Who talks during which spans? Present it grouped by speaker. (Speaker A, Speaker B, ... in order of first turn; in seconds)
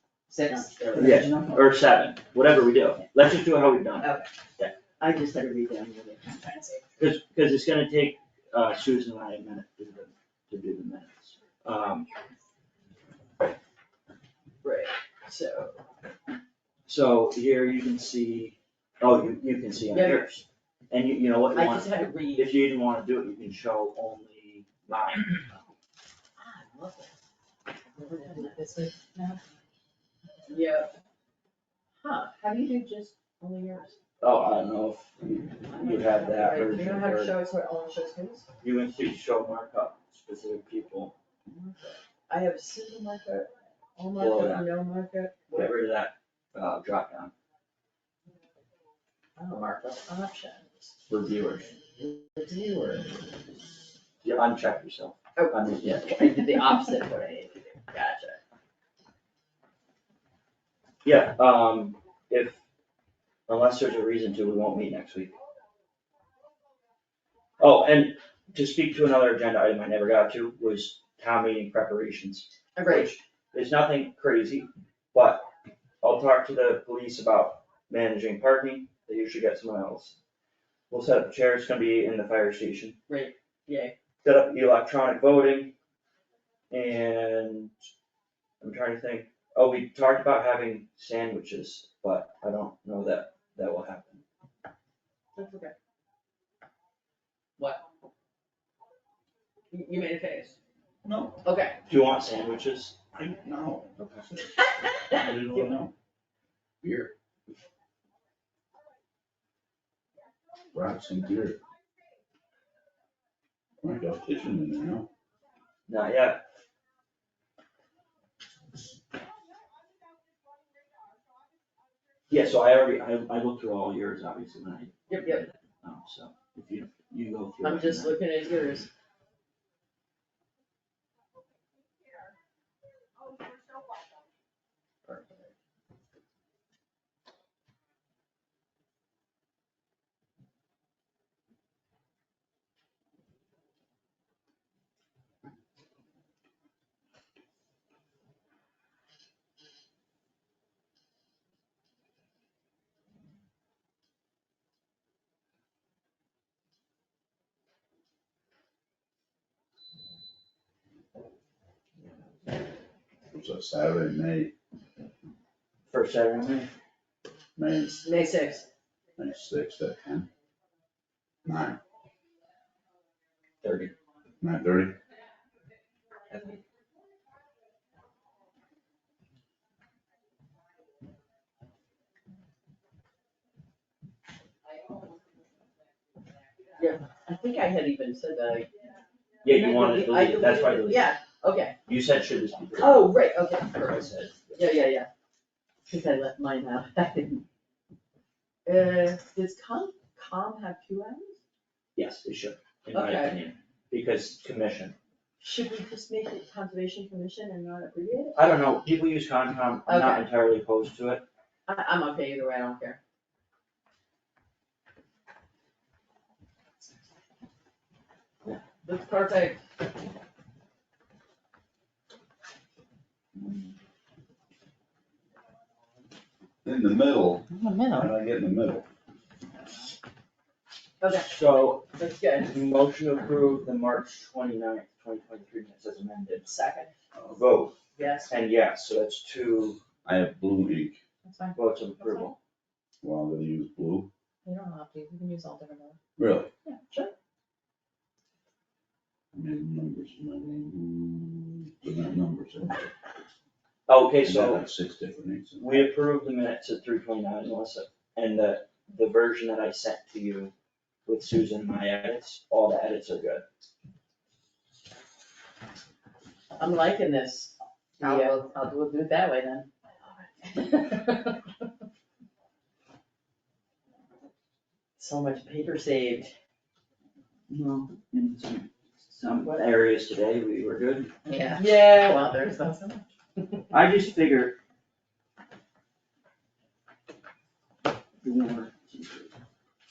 Speaker A: 0.3-1.4, 28.0-29.4, 227.5-228.1, 244.5-246.0, 268.0-269.6, 270.6-271.1, 281.2-283.0
Speaker B: 0.3-1.4, 5.0-6.8, 14.6-15.8, 19.9-20.3, 21.5-22.5, 26.4-27.1, 28.0-28.6, 30.5-30.9, 32.0-34.0, 35.7-38.5, 41.5-45.7, 49.4-50.9, 52.0-53.1, 55.4-58.4, 72.8-73.1, 83.1-83.9, 95.4-95.7, 99.7-100.5, 101.4-101.8, 104.6-105.7, 125.1-125.4, 127.6-128.9, 135.1-135.5, 168.0-168.7, 186.8-188.7, 189.5-191.8, 192.8-195.1, 195.9-197.4, 198.7-201.4, 202.9-203.4, 205.4-208.4, 209.9-210.3, 211.7-213.0, 218.5-219.6, 231.0-231.3, 231.9-232.5, 236.4-236.9, 238.0-238.4, 246.7-247.1, 266.6-268.5, 275.0-276.3, 281.5-282.8
Speaker C: 0.9-4.7, 7.0-12.1, 16.9-25.4, 34.2-37.3, 38.6-41.1, 44.2-44.7, 45.5-47.3, 51.1-51.7, 54.2-56.2, 61.0-62.6, 63.5-65.3, 67.6-75.5, 76.0-80.2, 80.9-83.0, 84.2-85.7, 86.7-87.7, 88.6-94.2, 101.9-103.0, 104.0-104.3, 115.9-116.4, 122.3-128.2, 165.9-166.7, 173.6-173.9, 189.4-191.1, 191.9-193.2, 193.7-194.6, 202.0-204.9, 208.4-211.2, 231.1-231.8, 232.4-236.5, 237.3-237.8, 238.3-239.8, 241.6-242.4, 253.9-254.6, 255.6-260.5, 261.1-263.4, 277.5-281.1, 283.7-284.6, 288.2-289.3
Speaker D: 101.0-101.4, 103.1-104.0, 105.1-105.9, 106.8-107.1, 110.7-111.6, 113.8-115.1, 163.3-164.5, 167.6-168.1, 169.2-170.3, 171.4-171.8, 174.4-175.0, 226.6-228.9, 240.1-241.0, 243.0-244.1, 246.2-246.5, 249.3-252.9, 254.2-255.8